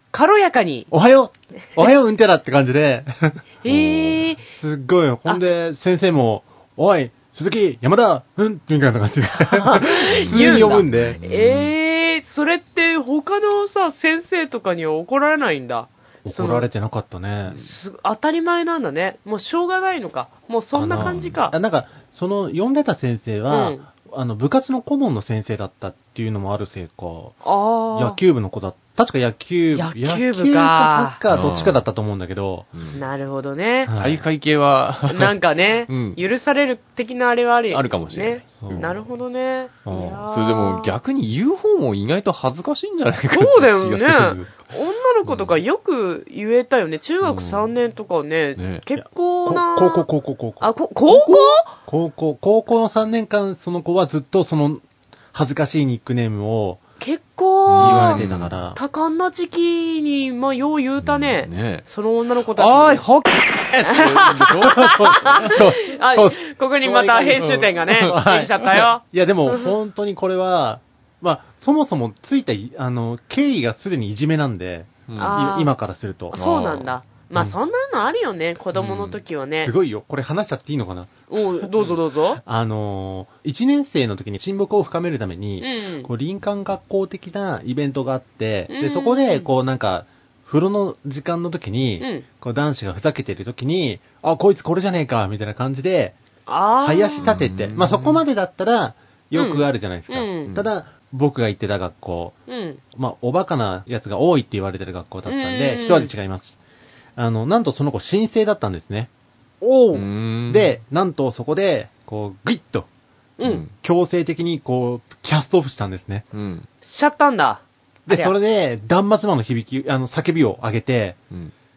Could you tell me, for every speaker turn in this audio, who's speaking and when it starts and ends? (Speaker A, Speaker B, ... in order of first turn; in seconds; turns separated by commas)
Speaker A: 0.1-0.9, Speaker B: 0.9-3.5, Speaker A: 3.6-4.4, Speaker C: 3.7-4.2, Speaker B: 4.5-11.2, Speaker A: 9.4-16.7, Speaker C: 10.1-11.7, Speaker B: 16.2-17.6, Speaker A: 17.5-21.5, Speaker B: 20.7-27.4, Speaker C: 20.9-21.4, Speaker A: 23.5-23.9, Speaker A: 27.4-28.2, Speaker B: 27.9-32.7, Speaker A: 29.7-31.2, Speaker C: 31.3-31.8, Speaker A: 32.9-33.9, Speaker B: 33.9-34.2, Speaker C: 34.0-35.4, Speaker A: 35.1-40.9, Speaker C: 35.9-36.2, Speaker C: 37.7-39.0, Speaker B: 38.6-38.9, Speaker B: 39.8-40.2, Speaker C: 40.3-44.5, Speaker A: 43.3-50.0, Speaker C: 45.2-45.6, Speaker C: 47.2-47.6, Speaker C: 48.6-48.8, Speaker B: 48.9-50.7, Speaker A: 50.6-51.7, Speaker B: 51.7-56.8, Speaker A: 57.0-58.2, Speaker B: 57.7-58.8, Speaker C: 57.7-58.5, Speaker A: 58.7-63.0, Speaker C: 61.0-61.8, Speaker C: 62.5-65.6, Speaker B: 63.7-76.4, Speaker A: 63.9-69.7, Speaker C: 67.4-68.1, Speaker C: 75.1-75.4, Speaker A: 75.2-75.7, Speaker A: 76.3-79.7, Speaker C: 76.3-76.9, Speaker C: 78.7-79.2, Speaker B: 79.6-81.7, Speaker A: 81.3-82.4, Speaker B: 82.4-96.2, Speaker A: 85.6-86.1, Speaker A: 88.7-89.5, Speaker A: 92.0-92.2, Speaker A: 96.5-97.3, Speaker B: 96.8-102.3, Speaker C: 97.2-98.2, Speaker A: 99.3-100.5, Speaker A: 102.5-102.8, Speaker B: 102.9-106.5, Speaker A: 105.3-106.1, Speaker B: 107.2-109.1, Speaker A: 109.6-110.0, Speaker C: 109.9-110.7, Speaker B: 110.5-112.9, Speaker C: 113.4-113.7, Speaker B: 113.7-116.2, Speaker C: 116.3-116.7, Speaker A: 116.8-118.3, Speaker B: 118.1-121.2